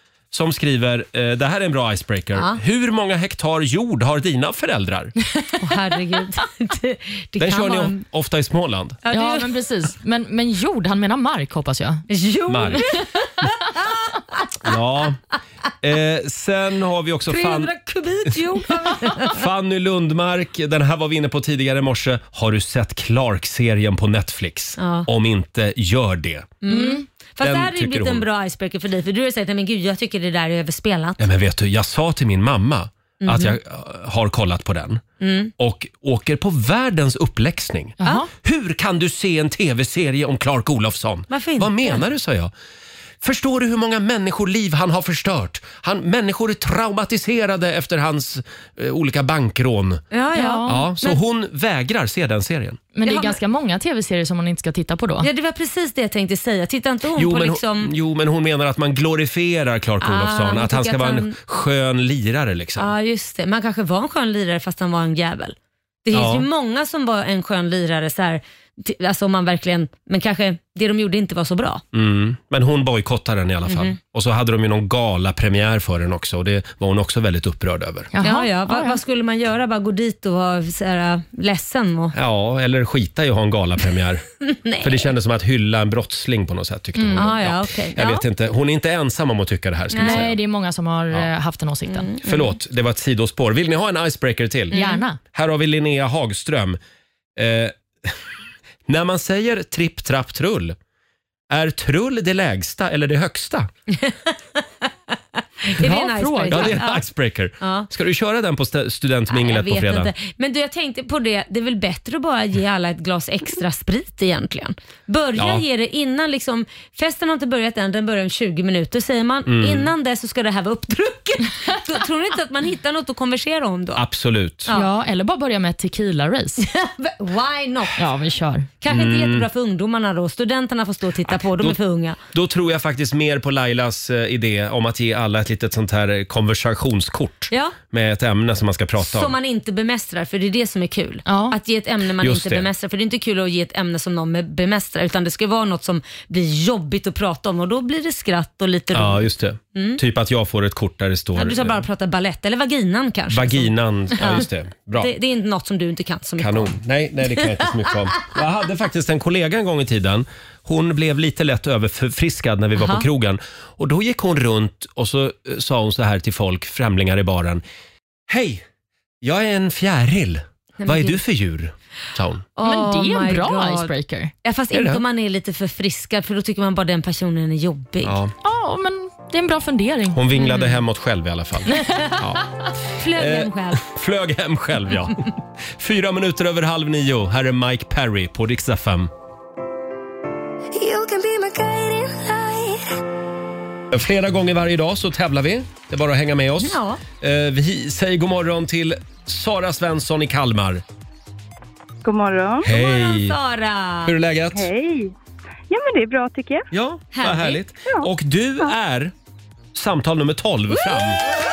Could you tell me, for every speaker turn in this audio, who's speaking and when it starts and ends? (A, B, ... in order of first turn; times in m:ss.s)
0:00.3-0:05.1 A
0:05.6-0:08.0 B
0:07.4-0:09.0 A
0:09.0-0:09.6 B
0:09.1-0:12.0 C
0:12.1-0:14.6 B
0:12.5-0:12.8 A
0:14.6-0:15.2 A
0:15.8-0:17.7 A
0:17.3-0:19.4 B
0:19.2-0:26.6 A
0:24.8-0:25.1 B
0:26.6-0:31.2 B
0:26.7-0:27.0 C
0:27.4-0:28.3 A
0:31.2-0:35.0 A
0:33.2-0:33.6 B
0:35.2-0:35.5 B
0:35.6-0:42.5 A
0:38.0-0:38.3 C
0:41.3-0:42.0 B
0:43.2-0:50.0 A
0:50.1-0:51.2 B
0:50.3-0:50.9 C
0:50.7-0:52.8 A
0:53.0-0:55.3 C
0:53.0-0:53.4 B
0:55.2-0:57.9 B
0:57.2-1:02.9 A
1:00.0-1:01.4 B
1:02.8-1:11.8 B
1:06.1-1:06.5 A
1:11.9-1:18.1 A
1:13.7-1:14.0 B
1:18.1-1:19.0 C
1:18.2-1:22.2 B
1:22.1-1:24.3 A
1:24.5-1:25.1 B
1:24.8-1:30.4 A
1:27.0-1:27.3 C
1:27.2-1:28.2 B
1:29.9-1:30.3 B
1:30.0-1:32.1 C
1:31.9-1:32.6 B
1:32.2-1:34.8 A
1:34.7-1:35.0 B
1:34.7-1:35.2 C
1:35.3-1:36.8 A
1:37.4-1:38.2 A
1:38.9-1:40.8 A
1:41.5-1:43.7 A
1:43.9-1:47.0 B
1:45.8-1:46.8 C
1:46.5-1:50.1 A
1:47.6-1:47.9 B
1:49.3-2:04.0 B
1:55.4-1:55.6 A
1:59.5-1:59.9 A
2:04.0-2:04.7 A
2:04.7-2:06.6 C
2:06.6-2:08.0 B
2:08.0-2:08.7 C
2:08.8-2:12.2 B
2:08.9-2:09.5 A
2:11.3-2:11.8 A
2:12.3-2:19.4 A
2:17.5-2:17.8 B
2:19.0-2:30.0 B
2:21.3-2:21.6 C
2:22.2-2:22.7 A
2:28.9-2:31.8 A
2:31.4-2:34.5 B
2:33.3-2:35.1 A
2:35.0-2:36.7 B
2:36.4-2:47.6 A
2:37.4-2:37.7 B
2:42.8-2:43.0 B
2:48.3-2:48.6 A
2:49.2-2:52.4 A
2:50.8-2:51.2 B
2:52.6-2:53.9 B
2:52.6-2:54.3 C
2:54.4-2:58.1 B
2:54.7-2:55.0 A
2:58.0-2:58.3 A
2:58.4-3:00.2 C
3:00.1-3:02.4 A
3:00.4-3:00.8 B
3:01.7-3:02.1 C
3:03.0-3:03.8 B
3:03.1-3:09.1 A
3:10.8-3:12.8 D
3:13.9-3:20.8 A
3:16.6-3:17.0 B
3:22.0-3:22.7 E
3:22.6-3:23.4 A
3:22.6-3:24.1 B
3:24.0-3:24.7 A
3:24.5-3:25.1 E
3:25.7-3:26.7 E
3:26.7-3:29.1 A
3:27.1-3:27.6 B
3:29.8-3:31.2 A